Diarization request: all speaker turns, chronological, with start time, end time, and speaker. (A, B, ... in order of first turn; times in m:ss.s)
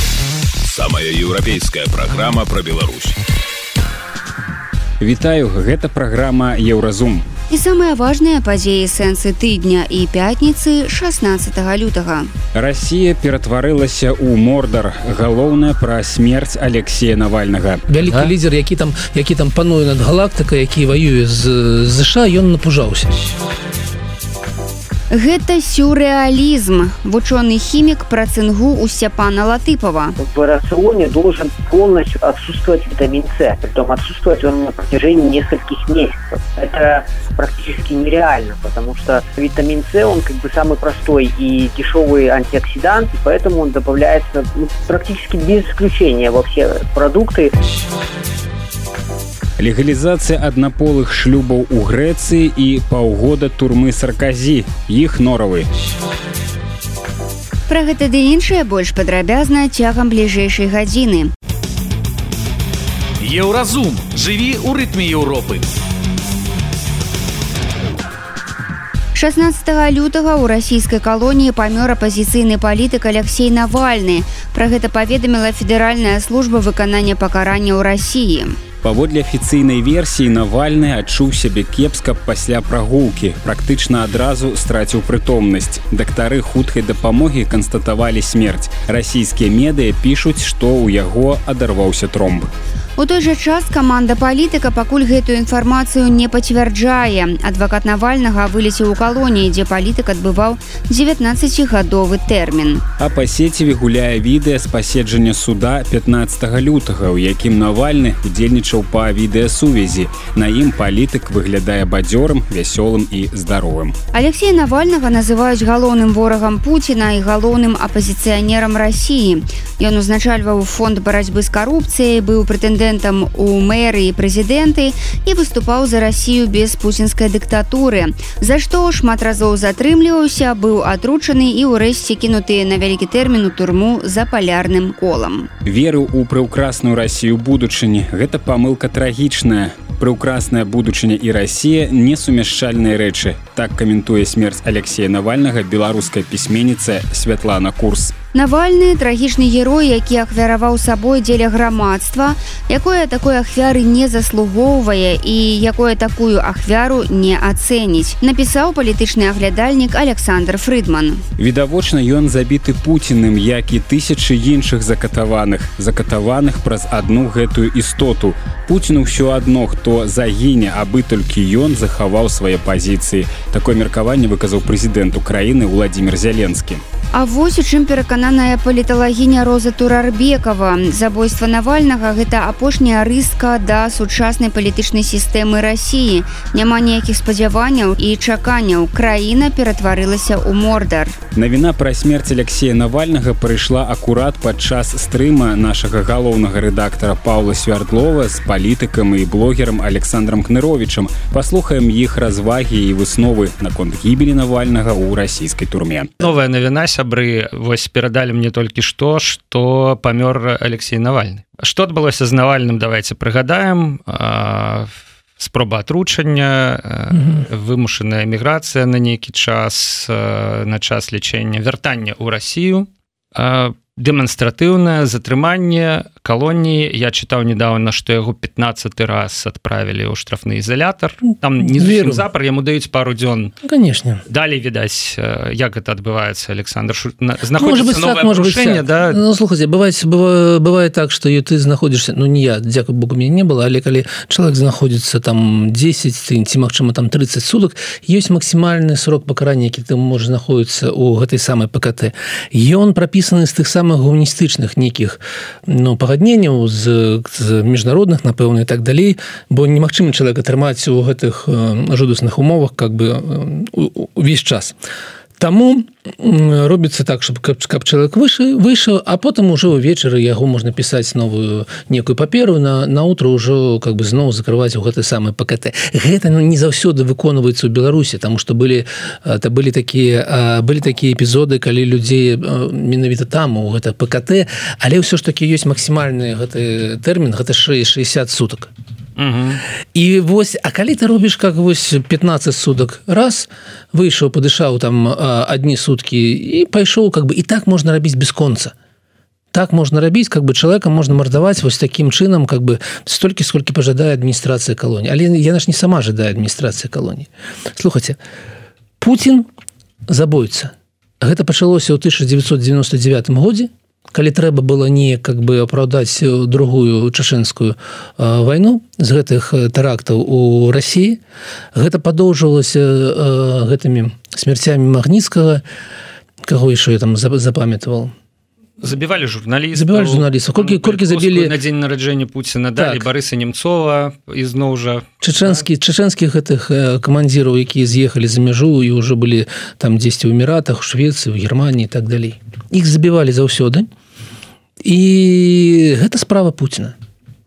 0:00.6-0:03.2 A
0:05.0-0:07.3 B
0:07.5-0:12.3 C
0:12.5-0:17.8 B
0:17.9-0:23.1 D
0:25.1-0:30.1 C
0:30.2-0:47.5 E
0:49.6-0:55.7 B
0:57.7-1:01.3 C
1:03.2-1:05.6 F
1:09.1-1:18.6 C
1:18.8-1:32.5 B
1:33.0-1:42.8 C
1:43.0-1:54.0 B
1:54.1-2:15.5 C
2:15.6-2:28.1 B
2:28.3-2:41.2 C
2:41.4-2:56.8 B
2:57.1-3:11.2 C
3:11.3-3:26.1 B
3:26.2-3:53.5 G
3:37.1-3:37.4 D
3:51.6-3:52.2 D
3:53.6-3:54.2 D
3:54.3-3:59.2 G
3:57.5-4:24.8 D
4:25.4-4:48.7 D
4:49.2-4:49.6 G
4:49.9-4:58.7 D
4:59.5-5:08.2 D
5:09.0-5:09.5 D
5:10.1-5:21.2 D
5:21.7-5:25.6 D
5:26.4-5:28.1 D
5:28.8-5:35.6 G
5:29.7-5:31.5 D
5:32.8-5:33.1 D
5:35.2-5:43.9 D
5:44.8-5:46.9 D